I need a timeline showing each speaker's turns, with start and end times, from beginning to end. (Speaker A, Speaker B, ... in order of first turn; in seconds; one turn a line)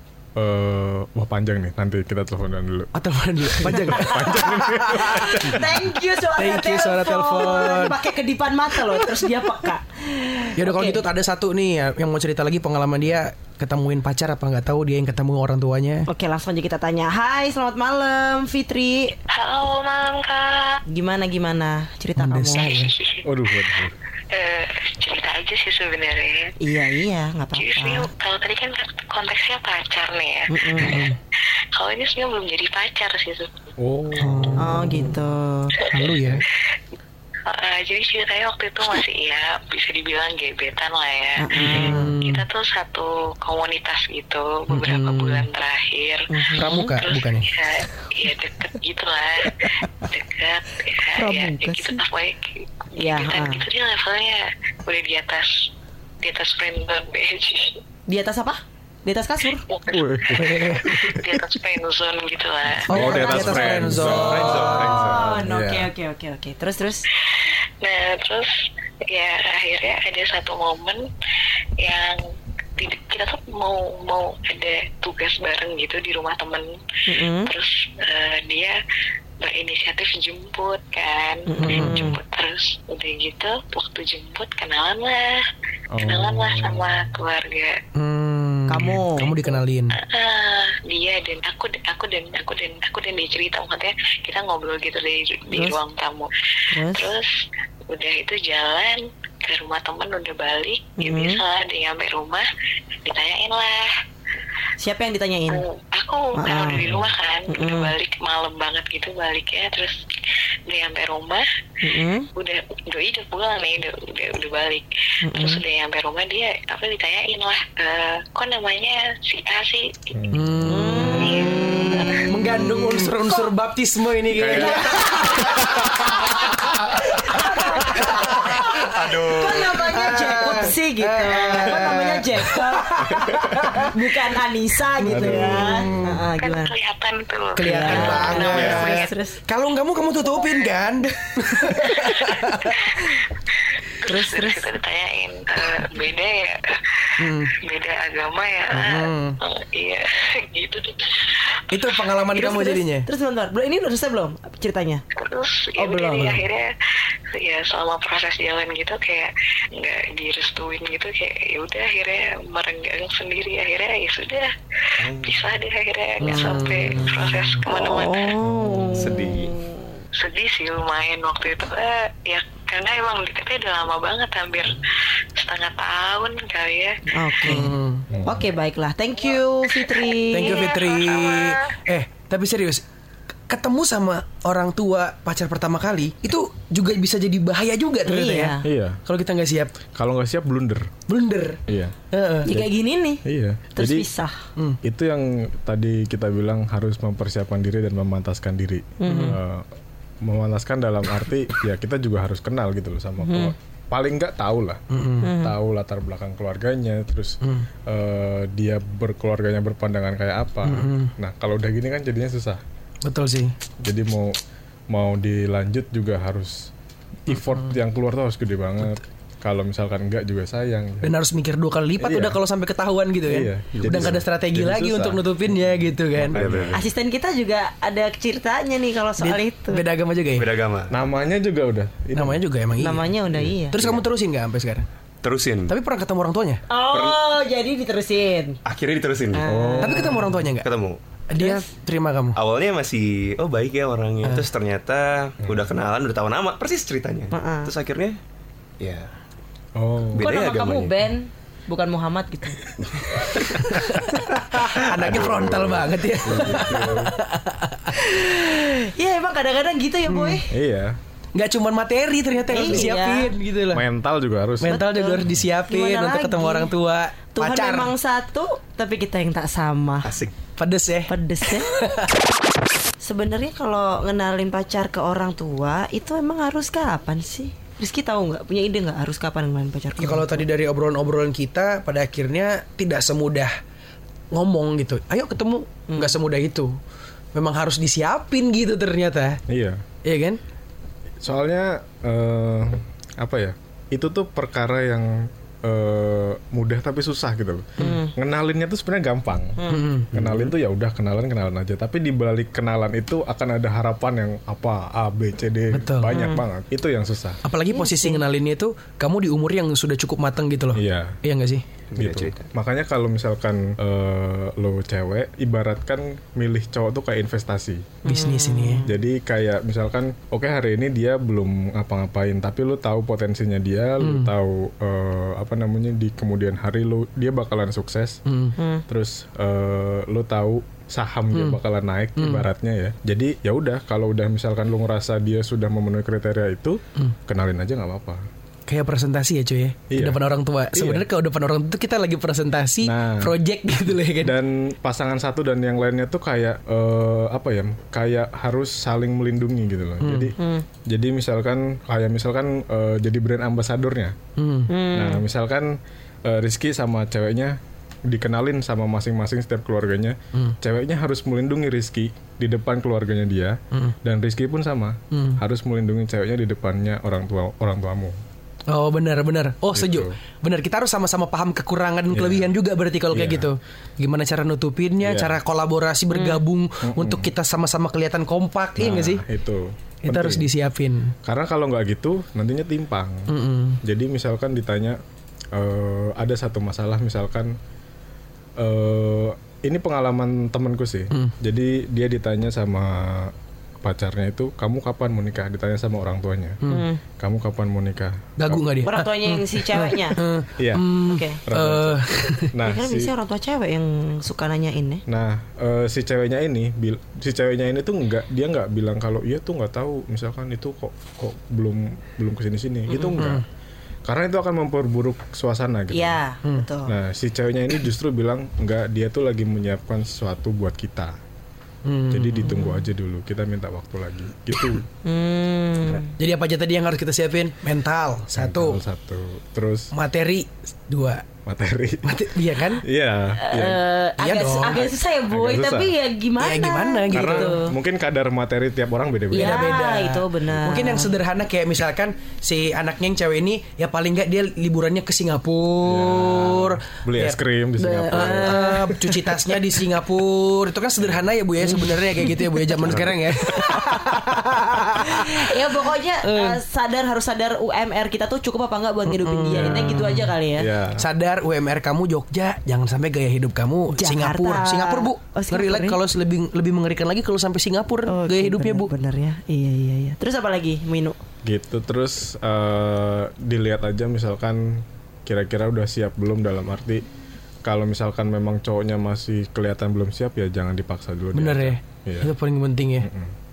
Speaker A: 0.4-2.9
Speaker B: 2.9-5.6
Speaker A: 3.5-5.7
Speaker C: 5.2-11.1
Speaker B: 6.3-8.0
Speaker B: 8.8-9.3
Speaker B: 10.6-16.1
Speaker C: 16.1-19.2
Speaker D: 19.3-20.8
Speaker C: 20.9-22.8
Speaker B: 22.2-22.9
Speaker D: 22.5-23.7
Speaker A: 23.2-24.0
Speaker D: 24.3-26.5
Speaker C: 26.6-28.1
Speaker D: 27.6-31.1
Speaker C: 30.5-31.1
Speaker B: 30.8-31.2
Speaker D: 31.8-33.5
Speaker A: 33.8-34.6
Speaker B: 34.2-35.1
Speaker C: 34.6-35.8
Speaker B: 35.9-36.4
Speaker D: 37.5-55.7
Speaker C: 41.4-42.1
Speaker B: 41.7-42.4
Speaker B: 44.7-45.5
Speaker C: 46.3-47.0
Speaker B: 46.6-47.5
Speaker C: 51.1-52.0
Speaker C: 52.9-53.6
Speaker D: 56.2-57.8
Speaker C: 58.1-59.7
Speaker D: 59.7-63.3
Speaker A: 59.9-61.4
Speaker B: 60.4-60.9
Speaker B: 62.9-64.5
Speaker A: 62.9-65.9
Speaker C: 62.9-67.0
Speaker E: 64.0-65.2
Speaker D: 67.2-68.5
Speaker D: 69.0-71.1
Speaker D: 71.8-72.2
Speaker D: 72.8-76.7
Speaker C: 77.1-77.5
Speaker D: 77.3-78.8
Speaker D: 79.4-85.3
Speaker C: 81.5-82.2
Speaker B: 81.6-82.0
Speaker A: 85.9-86.9
Speaker D: 86.0-87.8
Speaker B: 88.0-90.0
Speaker C: 88.7-89.4
Speaker D: 90.0-102.5
Speaker C: 95.5-95.8
Speaker C: 96.7-97.1
Speaker C: 101.0-101.4
Speaker D: 103.0-103.9
Speaker C: 104.8-105.7
Speaker D: 105.5-110.0
Speaker C: 106.4-106.9
Speaker C: 107.5-107.9
Speaker D: 110.7-111.4
Speaker C: 111.8-112.3
Speaker D: 112.4-120.1
Speaker C: 115.2-115.6
Speaker A: 120.1-121.2
Speaker B: 120.3-121.2
Speaker C: 120.7-123.0
Speaker D: 120.9-122.3
Speaker B: 122.3-126.6
Speaker A: 124.3-126.3
Speaker C: 124.5-136.7
Speaker B: 127.4-134.0
Speaker E: 129.0-129.6
Speaker A: 133.2-133.8
Speaker B: 135.0-136.2
Speaker A: 135.1-136.0
Speaker D: 136.4-139.1
Speaker B: 137.6-142.8
Speaker C: 137.6-139.4
Speaker A: 138.0-138.8
Speaker D: 141.8-152.2
Speaker C: 144.0-144.7
Speaker B: 147.2-147.5
Speaker B: 148.7-149.4
Speaker B: 151.7-153.1
Speaker C: 152.3-155.0
Speaker D: 155.2-156.7
Speaker C: 155.8-156.4
Speaker B: 156.2-156.4
Speaker D: 157.3-168.4
Speaker E: 165.0-165.4
Speaker B: 166.2-167.6
Speaker C: 166.2-166.6
Speaker C: 167.7-169.6
Speaker A: 168.4-169.1
Speaker E: 168.9-169.6
Speaker D: 170.2-174.8
Speaker D: 175.4-177.7
Speaker C: 177.1-180.8
Speaker B: 177.4-178.1
Speaker D: 179.7-181.7
Speaker B: 180.3-182.8
Speaker B: 183.5-189.8
Speaker C: 188.1-188.7
Speaker A: 188.6-189.0
Speaker A: 189.9-190.9
Speaker B: 191.1-191.6
Speaker A: 191.7-191.9
Speaker B: 192.1-192.5
Speaker C: 192.4-193.2
Speaker A: 193.2-194.1
Speaker C: 193.8-194.5
Speaker A: 194.8-199.7
Speaker C: 199.0-199.4
Speaker B: 199.1-199.4
Speaker A: 200.2-204.8
Speaker C: 203.3-203.5
Speaker B: 204.9-205.3
Speaker C: 205.2-205.6
Speaker A: 205.4-212.6
Speaker B: 210.6-211.1
Speaker B: 213.0-213.5
Speaker A: 213.8-214.3
Speaker A: 214.9-216.7
Speaker A: 217.3-221.1
Speaker B: 217.3-217.7
Speaker B: 221.0-226.4
Speaker A: 222.0-222.4
Speaker A: 223.3-226.9
Speaker E: 226.3-226.9
Speaker C: 226.7-229.8
Speaker B: 229.2-230.5
Speaker E: 230.4-230.9
Speaker A: 230.9-232.4
Speaker B: 232.2-233.2
Speaker C: 232.8-233.8
Speaker B: 233.7-234.9
Speaker E: 235.2-235.8
Speaker B: 235.7-236.6
Speaker C: 236.7-238.6
Speaker E: 236.9-237.2
Speaker E: 238.7-239.5
Speaker C: 239.3-240.2
Speaker A: 239.5-240.3
Speaker B: 239.8-240.7
Speaker E: 240.6-241.0
Speaker B: 241.3-242.4
Speaker C: 241.4-241.7
Speaker E: 242.4-248.2
Speaker C: 247.3-247.7
Speaker E: 248.8-249.1
Speaker A: 249.8-250.3
Speaker E: 250.1-251.0
Speaker C: 250.2-252.7
Speaker B: 253.1-257.9
Speaker E: 253.3-253.7
Speaker E: 254.6-255.7
Speaker A: 255.1-257.1
Speaker C: 257.9-260.5
Speaker B: 260.1-260.4
Speaker A: 260.5-261.0
Speaker B: 261.4-263.9
Speaker C: 262.5-263.3
Speaker A: 263.7-264.8
Speaker B: 264.6-267.9
Speaker C: 264.7-266.7
Speaker C: 267.3-270.2
Speaker E: 270.0-270.3
Speaker B: 270.6-272.2
Speaker C: 271.1-271.8
Speaker C: 273.0-280.4
Speaker B: 280.0-283.5
Speaker B: 284.3-286.8
Speaker C: 285.9-286.2
Speaker B: 287.3-289.4
Speaker A: 289.5-289.8
Speaker B: 290.0-290.4
Speaker A: 291.2-299.6
Speaker C: 297.8-298.1
Speaker C: 299.6-300.0
Speaker B: 299.7-300.1
Speaker A: 300.1-307.4
Speaker B: 305.7-306.1
Speaker C: 306.1-306.4
Speaker B: 307.4-311.7
Speaker C: 307.7-308.2
Speaker A: 310.7-311.2
Speaker E: 311.9-312.5
Speaker A: 312.0-317.9
Speaker B: 318.1-318.9
Speaker C: 318.1-318.9
Speaker A: 318.9-328.2
Speaker B: 324.0-324.3
Speaker B: 328.3-328.6
Speaker C: 328.6-328.8
Speaker A: 328.9-338.2
Speaker B: 331.3-331.6
Speaker B: 332.2-332.5
Speaker B: 338.7-344.4
Speaker A: 339.9-341.1
Speaker A: 342.8-343.3
Speaker A: 344.2-354.2
Speaker B: 350.0-350.3
Speaker C: 350.4-350.6
Speaker B: 354.4-354.7
Speaker C: 354.7-355.2
Speaker A: 354.9-368.2
Speaker B: 365.1-365.4
Speaker B: 368.7-379.3
Speaker A: 369.7-370.2
Speaker A: 372.1-372.5
Speaker A: 373.1-373.5
Speaker A: 375.0-375.4
Speaker C: 376.1-376.4
Speaker A: 376.8-377.3
Speaker A: 378.8-380.5
Speaker B: 380.0-381.1
Speaker A: 381.2-385.0
Speaker B: 383.3-383.8
Speaker A: 385.5-387.6
Speaker A: 388.6-396.6
Speaker B: 396.6-396.9
Speaker C: 396.7-397.0
Speaker A: 397.2-398.6
Speaker B: 398.4-402.5
Speaker C: 398.8-400.2
Speaker A: 400.6-403.1
Speaker C: 401.0-401.4
Speaker C: 402.6-405.0
Speaker A: 405.1-413.4
Speaker C: 412.9-413.3
Speaker B: 413.2-413.4
Speaker A: 414.1-416.2
Speaker C: 415.9-416.9
Speaker A: 416.9-421.2
Speaker B: 421.9-422.6
Speaker A: 422.1-424.9
Speaker C: 422.4-422.8
Speaker C: 425.0-426.1
Speaker B: 426.1-428.8
Speaker A: 428.3-429.9
Speaker B: 429.9-431.3
Speaker A: 431.4-432.2
Speaker B: 432.1-432.8
Speaker A: 432.8-433.8
Speaker C: 433.4-437.7
Speaker B: 434.2-434.9
Speaker A: 435.3-435.9
Speaker B: 436.4-437.6
Speaker A: 437.1-439.7
Speaker C: 439.3-441.1
Speaker B: 439.3-447.4
Speaker A: 445.8-448.8
Speaker C: 447.8-449.4
Speaker B: 448.1-455.5
Speaker C: 451.6-452.0
Speaker C: 453.5-454.1
Speaker C: 455.0-460.7
Speaker B: 456.2-456.6
Speaker B: 459.1-460.3
Speaker A: 459.5-461.1
Speaker B: 461.0-468.9
Speaker C: 463.9-466.0
Speaker C: 468.1-471.2
Speaker A: 471.4-477.0
Speaker A: 477.6-482.3
Speaker B: 481.3-483.1
Speaker A: 483.0-483.3